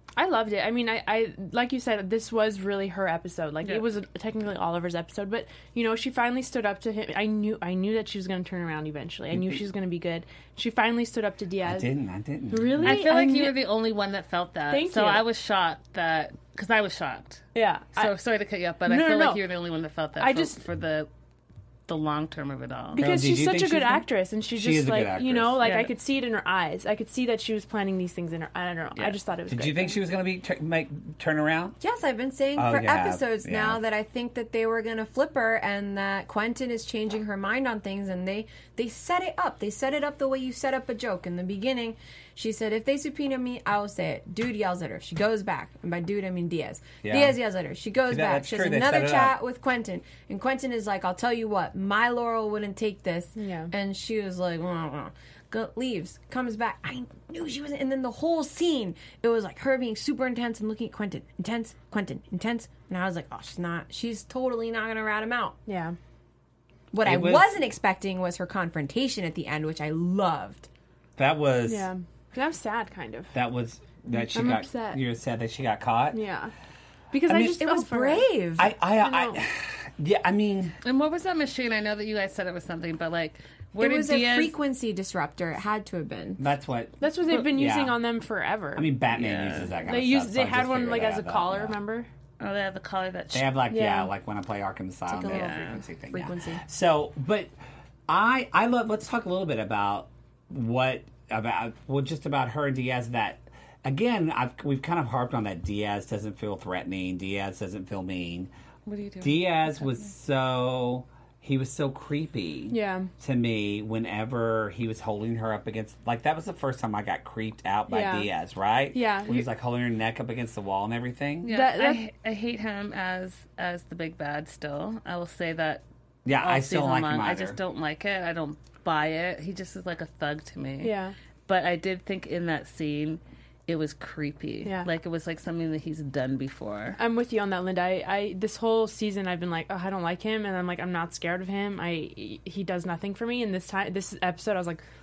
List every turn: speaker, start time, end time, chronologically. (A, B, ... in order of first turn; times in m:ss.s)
0:00.2-0:11.9 A
0:09.3-0:09.6 B
0:11.6-0:13.1 B
0:12.5-0:13.6 A
0:12.8-0:17.4 C
0:14.7-0:15.2 A
0:17.6-0:18.1 A
0:18.0-0:21.1 C
0:18.9-0:19.4 A
0:20.2-0:20.6 A
0:21.9-0:23.0 C
0:22.9-0:30.0 A
0:23.0-0:25.6 B
0:25.6-0:25.9 C
0:29.5-0:31.8 B
0:31.8-1:05.6 D
0:32.6-0:33.8 B
0:47.0-0:47.4 B
0:48.1-0:49.4 B
0:53.4-0:53.7 A
1:05.7-1:06.0 A
1:06.9-1:10.7 D
1:07.0-1:07.6 B
1:11.2-1:11.9 B
1:11.7-1:13.3 A
1:13.3-1:16.2 B
1:14.3-1:15.0 A
1:16.1-1:16.5 A
1:17.1-1:18.3 A
1:17.3-1:17.6 B
1:17.5-1:18.7 D
1:18.6-1:20.8 B
1:19.0-1:19.4 A
1:20.8-1:24.5 C
1:23.8-1:26.5 D
1:26.4-1:28.0 B
1:27.0-1:28.9 A
1:28.8-1:31.8 B
1:29.1-1:29.7 C
1:29.9-1:32.1 A
1:32.4-1:33.5 C
1:33.3-1:37.5 B
1:33.7-1:34.1 A
1:35.1-1:36.6 D
1:35.3-1:35.8 C
1:38.1-1:48.5 B
1:48.9-1:50.1 C
1:49.2-2:01.5 B
1:52.7-1:53.1 A
1:57.9-1:58.3 A
1:58.9-1:59.5 A
2:01.4-2:05.8 C
2:01.5-2:02.0 A
2:06.2-2:07.6 B
2:06.4-2:10.9 C
2:10.8-2:11.2 A
2:11.5-2:17.0 C
2:17.0-2:24.8 A